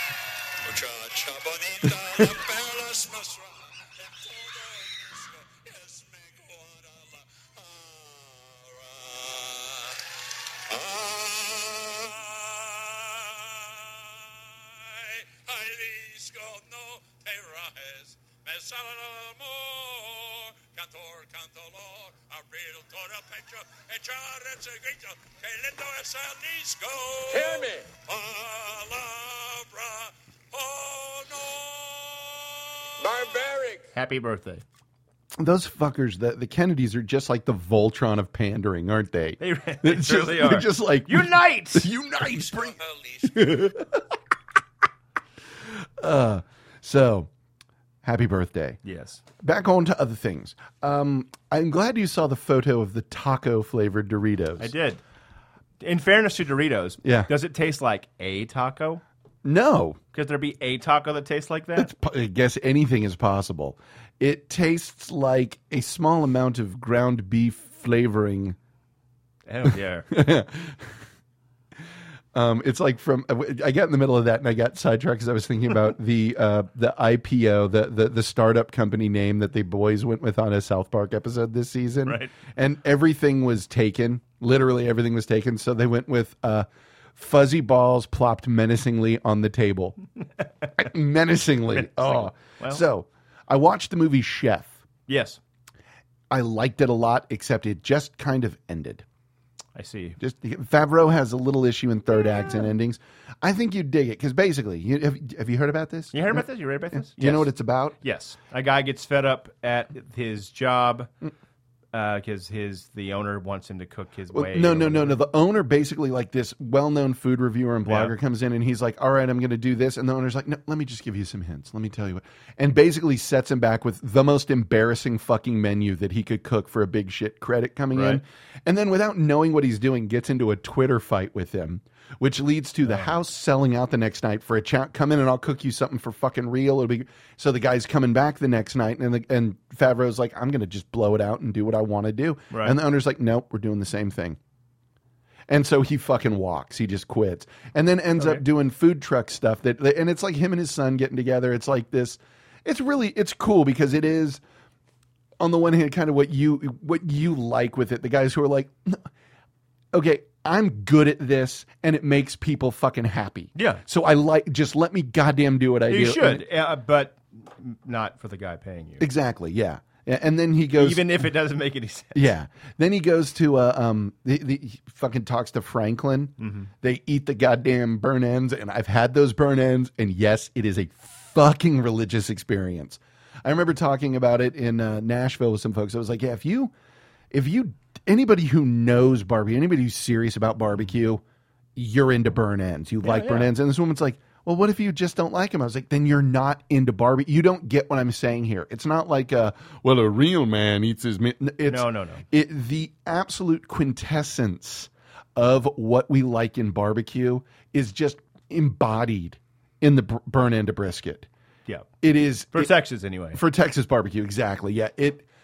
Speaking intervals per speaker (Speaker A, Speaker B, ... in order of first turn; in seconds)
Speaker A: 0.6-10.1, 10.7-32.4, 33.0-33.8, 42.2-43.8
Speaker B: 33.9-34.6, 39.4-41.9, 48.9-49.2, 54.6-55.0, 55.8-59.0, 60.1-61.9, 69.5-70.1, 82.1-82.3, 91.7-92.8, 95.1-95.4, 99.8-100.2, 106.1-111.1, 111.9-115.2, 117.9-118.2, 127.9-128.2, 132.9-133.1, 142.5-142.8, 148.2-148.4, 163.6-163.8, 165.9-169.1, 170.8-172.2, 176.4-176.7, 193.0-193.5, 201.7-202.2, 212.5-213.4
Speaker C: 35.4-44.0, 46.0-47.3, 48.0-48.8, 49.4-54.7, 57.0-57.3, 59.4-60.0, 61.8-68.6, 69.7-71.0, 72.3-90.0, 90.8-94.8, 96.3-99.0, 100.2-108.0, 114.3-144.4, 145.5-154.4, 155.4-159.0, 159.9-166.4, 169.0-171.2, 172.1-186.7, 187.3-191.2, 191.8-211.3, 212.0-212.7, 213.3-215.3